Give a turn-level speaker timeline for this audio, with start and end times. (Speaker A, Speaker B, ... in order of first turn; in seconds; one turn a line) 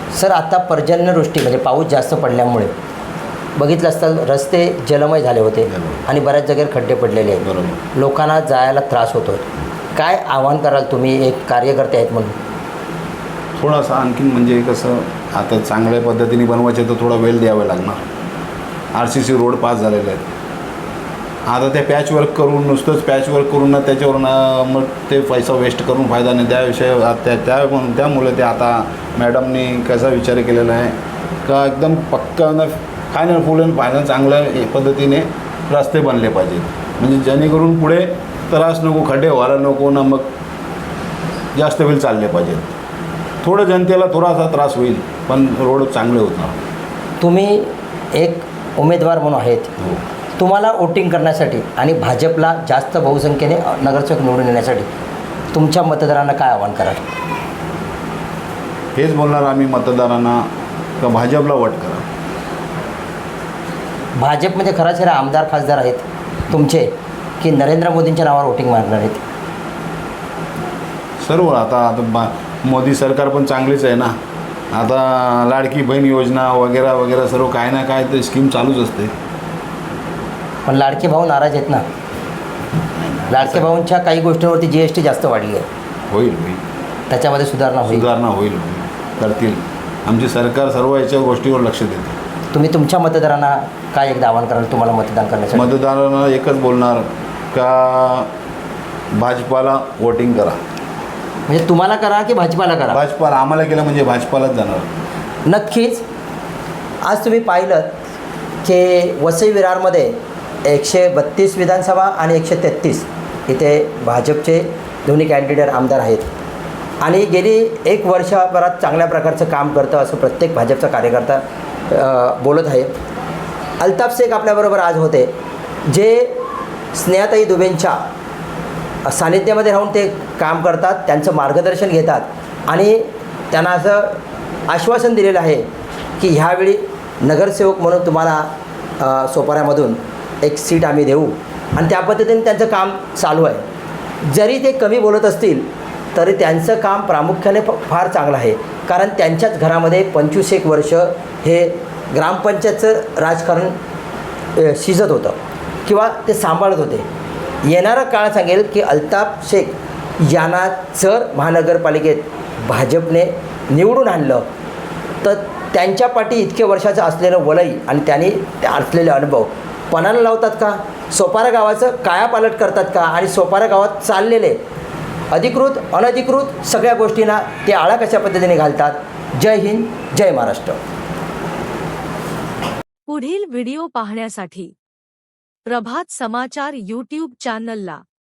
Speaker A: 0.1-2.7
Speaker A: 3.6-9.4
Speaker B: 5.7-6.0
Speaker B: 7.4-7.8
Speaker A: 9.9-12.4
Speaker B: 13.6-18.0
Speaker B: 18.9-20.2
Speaker B: 21.5-40.3
Speaker B: 41.5-42.7
Speaker B: 43.4-46.6
Speaker A: 47.2-49.7
Speaker A: 50.4-54.9
Speaker A: 55.5-57.1
Speaker B: 59.0-60.5
Speaker B: 61.0-62.0
Speaker A: 64.2-66.9
Speaker A: 67.4-69.2
Speaker B: 71.2-74.2
Speaker B: 74.7-79.1
Speaker A: 80.7-81.8
Speaker B: 83.0-83.7
Speaker A: 83.3-85.7
Speaker B: 86.1-86.6
Speaker A: 87.1-88.1
Speaker B: 87.9-92.2
Speaker A: 92.5-95.7
Speaker B: 95.5-98.3
Speaker B: 99.1-100.6
Speaker A: 101.5-103.0
Speaker B: 102.9-104.9
Speaker A: 105.5-106.0
Speaker A: 107.0-108.0
Speaker A: 108.6-116.3
Speaker A: 117.0-122.9
Speaker A: 123.8-125.3
Speaker A: 125.9-126.4
Speaker A: 126.9-128.0
Speaker A: 129.1-135.7
Speaker A: 136.2-138.5
Speaker A: 139.0-143.6
Speaker A: 144.2-153.8
Speaker A: 154.6-157.1
Speaker A: 157.6-164.4
Speaker A: 165.2-174.6
Speaker A: 175.3-180.8
Speaker C: 183.1-184.7
Speaker C: 185.7-188.0